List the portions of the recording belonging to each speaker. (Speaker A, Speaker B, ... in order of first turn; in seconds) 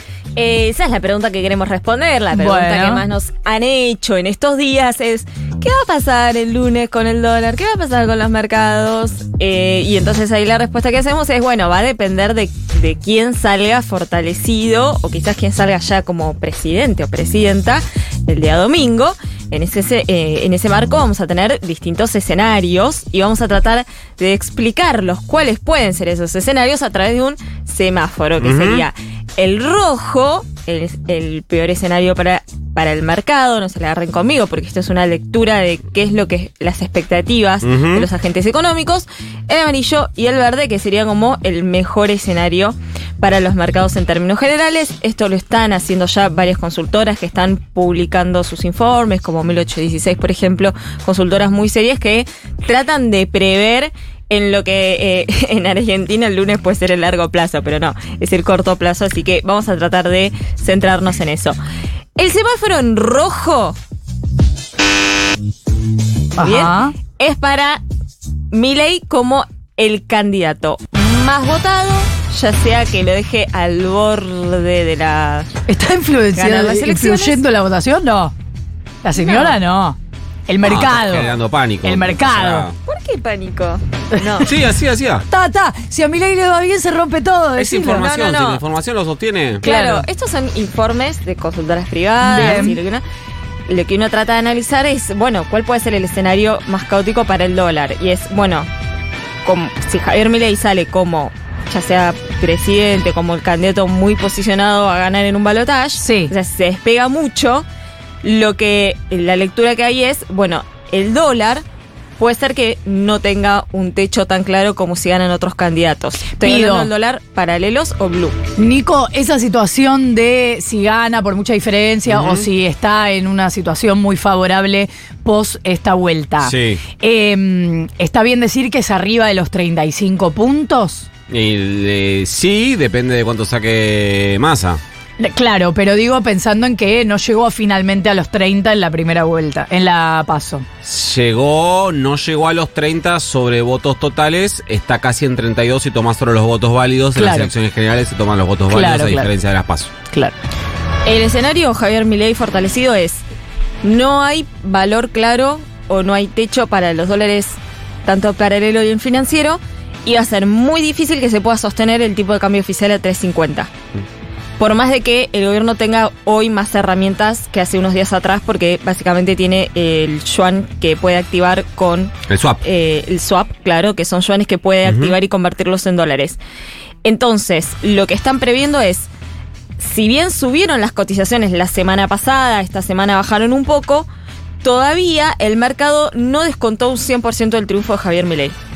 Speaker A: 0.3-61.6, 62.2-63.8, 66.4-67.8, 68.5-75.5, 76.3-77.4, 79.1-79.6, 82.8-84.5, 87.9-88.6, 89.6-93.0, 93.7-98.7, 99.4-107.7, 108.2-111.6, 112.2-118.4, 151.1-153.2, 153.8-163.7, 164.6-176.4, 177.0-179.1, 179.8-184.1, 184.6-188.6
Speaker B: 2.3-3.0, 66.4-66.9, 75.7-78.3, 79.0-80.0, 80.5-81.3, 81.8-82.7, 84.2-84.5, 85.3-88.1, 89.6-90.0, 92.2-92.8, 106.0-106.3, 116.4-116.9, 118.6-131.1, 135.2-140.6, 147.1-147.5, 148.7-149.3
Speaker C: 28.4-28.8, 37.6-38.0, 80.6-82.8, 84.4-85.2, 87.6-89.6, 92.4-92.7, 122.1-122.5, 126.4-126.8, 131.3-134.8, 140.8-149.9, 172.3-172.6, 174.8-175.1